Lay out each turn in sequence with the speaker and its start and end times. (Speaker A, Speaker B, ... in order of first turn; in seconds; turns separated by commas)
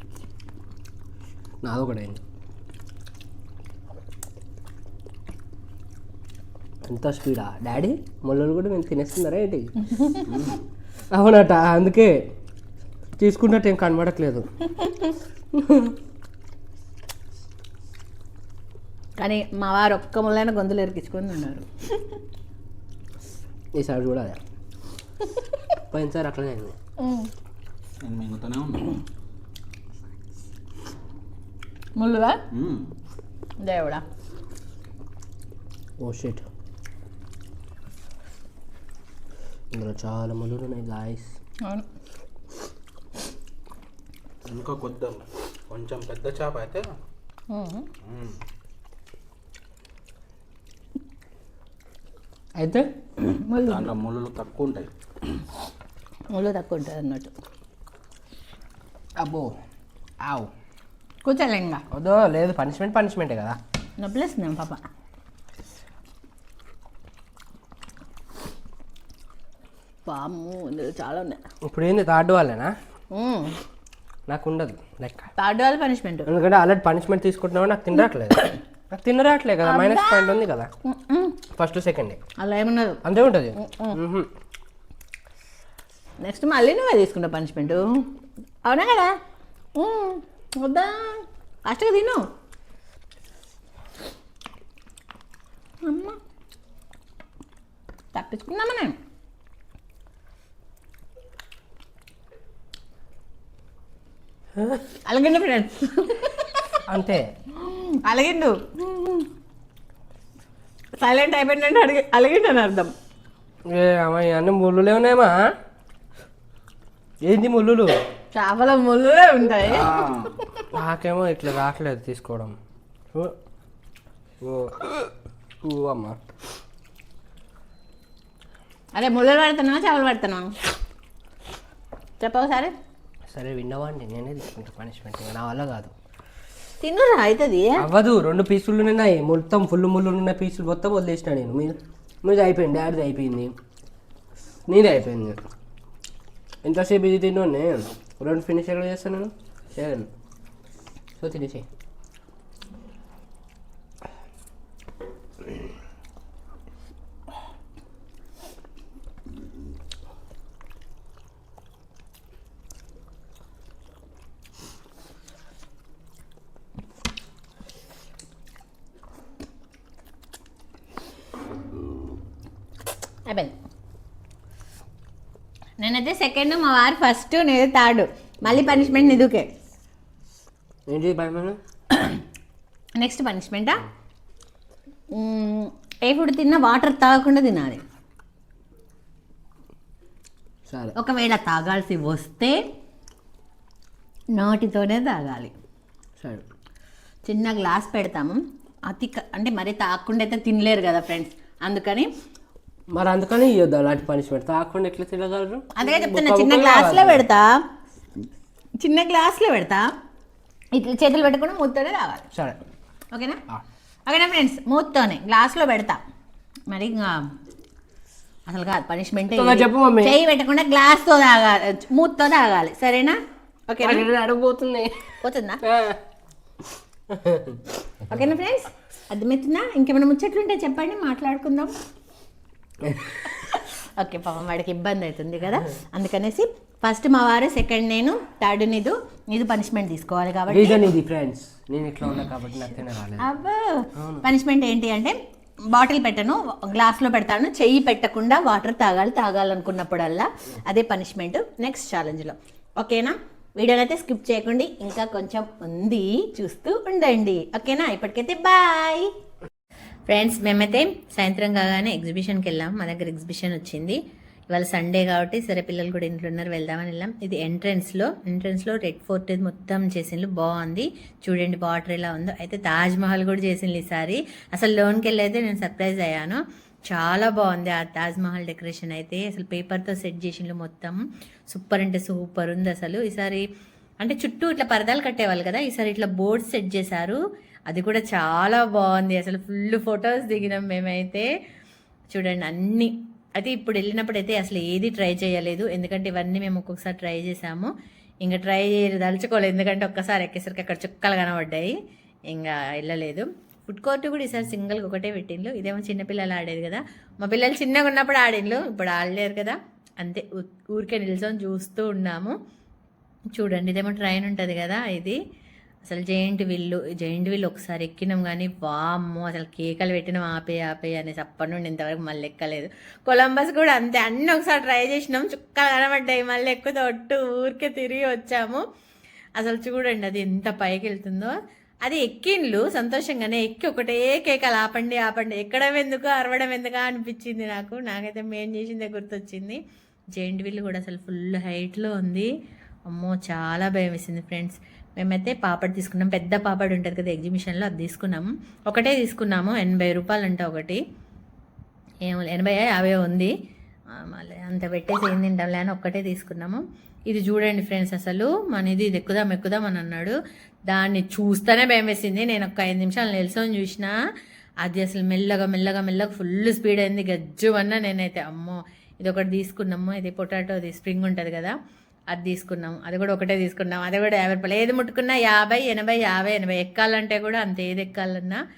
Speaker A: 1.6-2.2, Speaker A: 6.8-10.2, Speaker B: 10.3-10.6, Speaker A: 11.1-12.2, Speaker A: 13.2-14.5, Speaker A: 15.5-16.0, Speaker C: 19.2-22.0, Speaker A: 23.8-24.4, Speaker A: 25.9-26.7, Speaker C: 27.0-27.3, Speaker B: 28.0-29.0, Speaker C: 32.0-32.4, Speaker B: 32.5-32.9, Speaker C: 33.6-34.0, Speaker A: 36.0-36.5, Speaker A: 39.7-41.3, Speaker B: 44.4-47.0, Speaker C: 47.5-47.9, Speaker B: 48.0-48.4, Speaker A: 52.6-52.9, Speaker C: 53.2-53.9, Speaker B: 53.6-54.9, Speaker C: 56.3-57.3, Speaker A: 59.2-59.5, Speaker A: 60.2-60.5, Speaker C: 61.2-61.8, Speaker A: 61.9-63.6, Speaker C: 64.0-64.8, Speaker C: 70.1-71.4, Speaker A: 71.6-72.7, Speaker C: 73.1-73.6, Speaker A: 74.3-75.3, Speaker C: 75.4-76.3, Speaker A: 76.2-80.7, Speaker C: 79.6-81.4, Speaker A: 81.5-82.2, Speaker C: 82.4-83.0, Speaker A: 83.0-84.3, Speaker C: 83.5-84.0, Speaker C: 86.2-88.1, Speaker C: 88.6-89.1, Speaker C: 89.8-92.2, Speaker C: 95.8-96.2, Speaker C: 98.1-99.0, Speaker C: 105.0-106.8, Speaker A: 106.9-107.3, Speaker C: 107.5-109.3, Speaker C: 111.0-112.9, Speaker A: 113.7-115.4, Speaker A: 117.2-117.9, Speaker C: 118.3-120.0, Speaker B: 119.7-120.4, Speaker A: 120.7-122.5, Speaker A: 124.4-125.1, Speaker A: 125.6-126.2, Speaker C: 128.9-130.5, Speaker C: 132.2-132.7, Speaker A: 133.3-135.9, Speaker C: 136.8-137.8, Speaker A: 137.8-143.5, Speaker A: 144.7-145.4, Speaker A: 146.6-150.1, Speaker A: 151.2-151.7, Speaker C: 173.3-173.5, Speaker C: 175.8-179.5, Speaker A: 180.9-181.6, Speaker C: 181.9-182.2, Speaker C: 183.0-183.8, Speaker C: 185.1-187.8, Speaker A: 190.7-190.9, Speaker C: 190.9-192.6, Speaker C: 194.3-195.5, Speaker C: 197.2-202.1, Speaker A: 202.9-207.2, Speaker C: 205.7-207.6, Speaker C: 208.8-209.9, Speaker C: 210.7-212.3, Speaker A: 212.3-212.6, Speaker C: 213.1-213.4, Speaker C: 214.1-216.0, Speaker C: 216.7-217.3, Speaker C: 218.5-223.2, Speaker A: 219.3-220.2, Speaker C: 223.7-224.1, Speaker A: 223.8-225.1, Speaker C: 225.2-225.6, Speaker A: 225.6-226.0, Speaker A: 227.1-227.6, Speaker C: 228.1-231.7, Speaker A: 232.8-233.2, Speaker C: 233.2-240.8, Speaker A: 240.5-243.3, Speaker C: 243.2-245.2, Speaker A: 243.9-244.2, Speaker C: 245.7-259.1, Speaker C: 260.1-264.0, Speaker C: 264.5-283.4, Speaker C: 284.0-291.3, Speaker C: 292.1-301.8, Speaker C: 302.3-312.4, Speaker C: 313.3-315.2, Speaker C: 315.8-328.6, Speaker C: 329.4-339.6, Speaker C: 340.1-342.3, Speaker C: 342.9-350.8, Speaker C: 352.0-353.3, Speaker C: 353.9-360.1, Speaker C: 360.7-363.9, Speaker C: 364.6-371.6, Speaker C: 372.1-378.4